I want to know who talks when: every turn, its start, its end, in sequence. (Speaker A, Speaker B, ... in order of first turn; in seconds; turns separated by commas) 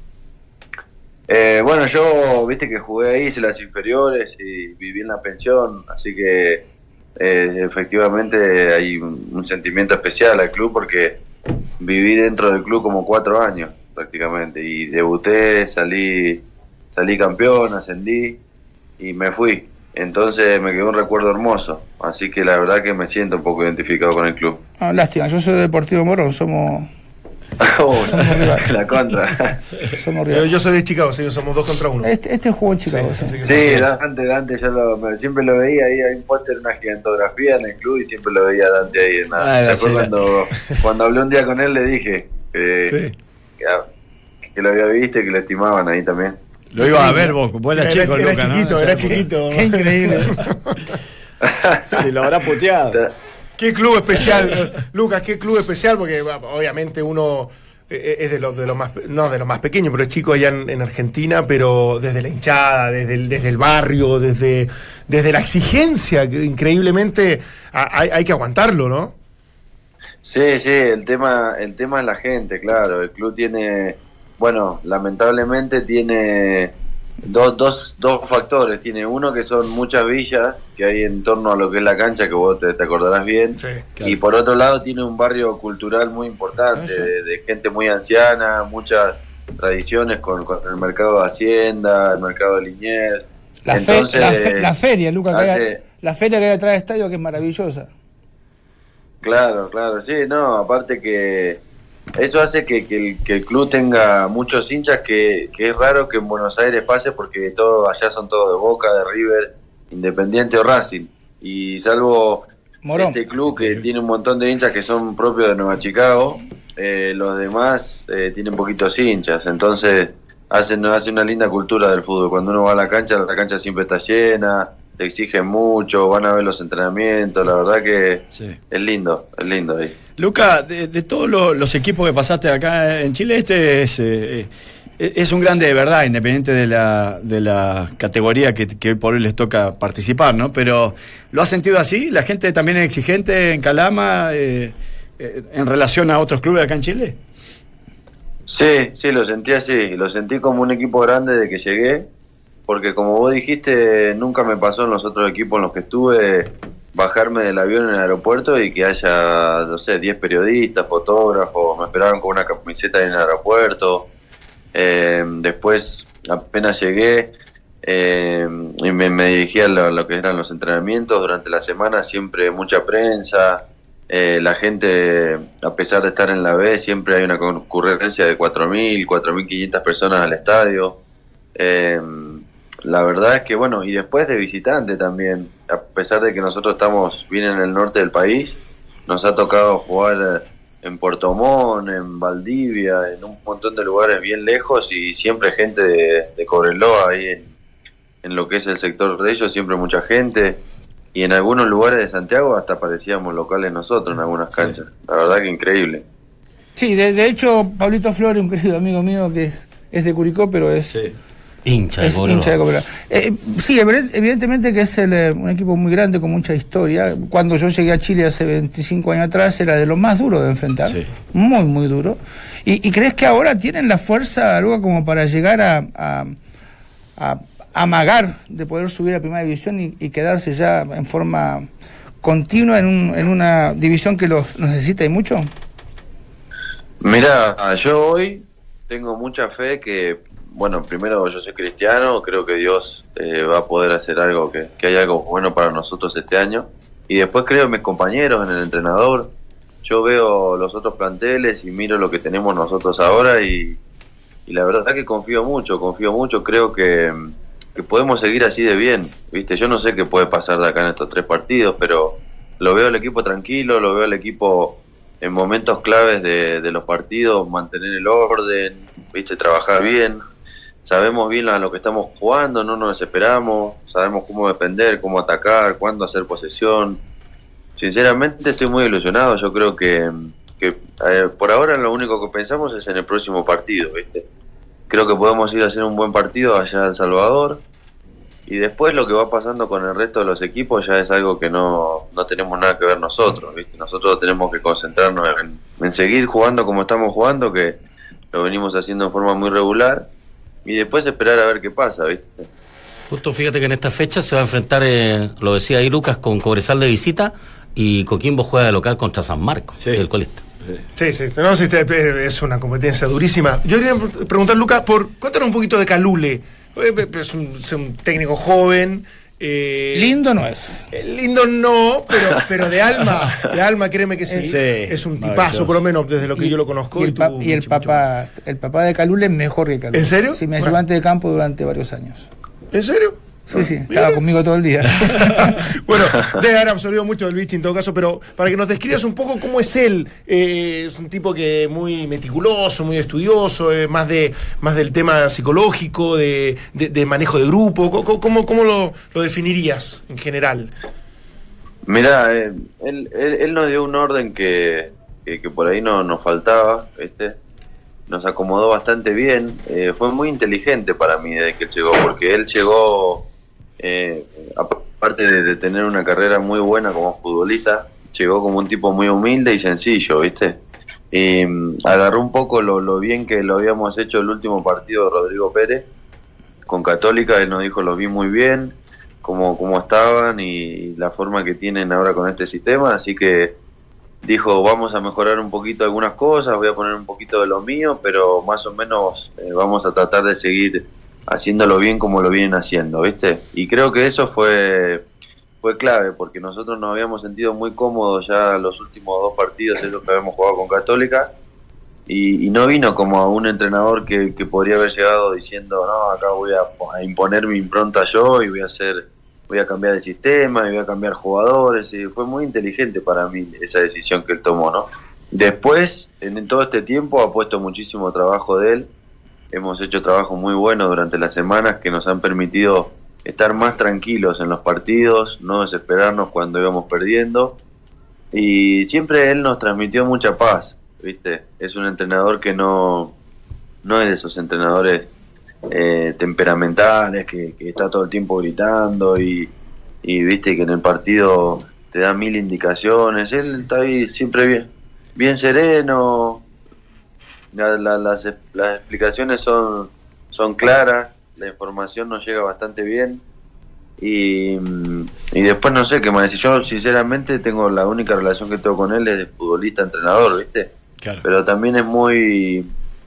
Speaker A: 1.3-6.6, Speaker A: 7.2-11.2, Speaker A: 11.8-16.4, Speaker A: 16.9-18.4, Speaker A: 19.0-24.6, Speaker B: 24.8-26.9, Speaker A: 27.6-29.6, Speaker B: 28.1-28.7, Speaker B: 29.9-30.5, Speaker C: 30.3-32.1, Speaker B: 32.0-33.5, Speaker C: 32.9-33.8, Speaker A: 33.4-43.0, Speaker D: 33.4-33.9, Speaker D: 39.4-40.1, Speaker C: 42.9-43.1, Speaker A: 44.5-46.4, Speaker D: 46.7-49.3, Speaker B: 46.8-47.3, Speaker C: 47.7-51.0, Speaker B: 49.5-50.4, Speaker A: 51.4-51.9, Speaker D: 51.9-53.0, Speaker C: 53.6-69.1, Speaker A: 70.2-76.7, Speaker A: 77.2-94.7, Speaker C: 83.6-83.8, Speaker B: 86.8-87.1, Speaker B: 93.7-97.9, Speaker A: 95.3-95.8, Speaker A: 99.2-101.6, Speaker A: 102.2-129.9, Speaker B: 112.8-113.2, Speaker D: 128.3-128.6, Speaker D: 130.2-147.2, Speaker A: 148.5-152.1, Speaker A: 152.7-164.1, Speaker A: 164.7-167.3, Speaker A: 167.8-180.9, Speaker A: 181.6-197.5, Speaker A: 198.2-200.6, Speaker A: 201.1-206.0, Speaker B: 206.8-211.0, Speaker D: 210.9-211.1, Speaker E: 211.6-212.5, Speaker B: 212.0-226.3, Speaker B: 227.2-231.7, Speaker B: 232.2-235.5, Speaker A: 237.0-249.3, Speaker A: 249.8-253.8, Speaker A: 254.5-270.2, Speaker A: 270.8-277.0, Speaker A: 277.8-284.2, Speaker A: 284.9-287.6, Speaker A: 288.5-297.8, Speaker A: 298.3-300.1, Speaker A: 300.6-302.5, Speaker E: 303.1-310.4, Speaker D: 309.8-310.0, Speaker C: 311.0-320.2, Speaker B: 319.9-320.9, Speaker C: 320.9-328.0, Speaker D: 324.4-325.8, Speaker B: 326.4-332.3, Speaker C: 329.9-330.8, Speaker C: 332.7-334.2, Speaker B: 333.5-335.4, Speaker C: 335.0-350.7, Speaker A: 351.9-357.4, Speaker A: 358.1-363.2, Speaker A: 363.8-370.6, Speaker A: 371.1-375.8, Speaker A: 376.7-383.5, Speaker A: 384.2-395.0, Speaker A: 395.6-401.3, Speaker A: 402.1-418.9, Speaker A: 419.5-427.5, Speaker A: 428.3-433.1, Speaker A: 433.8-435.1, Speaker A: 435.7-439.5, Speaker A: 440.0-446.4, Speaker A: 447.5-453.2, Speaker A: 454.0-460.7, Speaker A: 461.2-462.7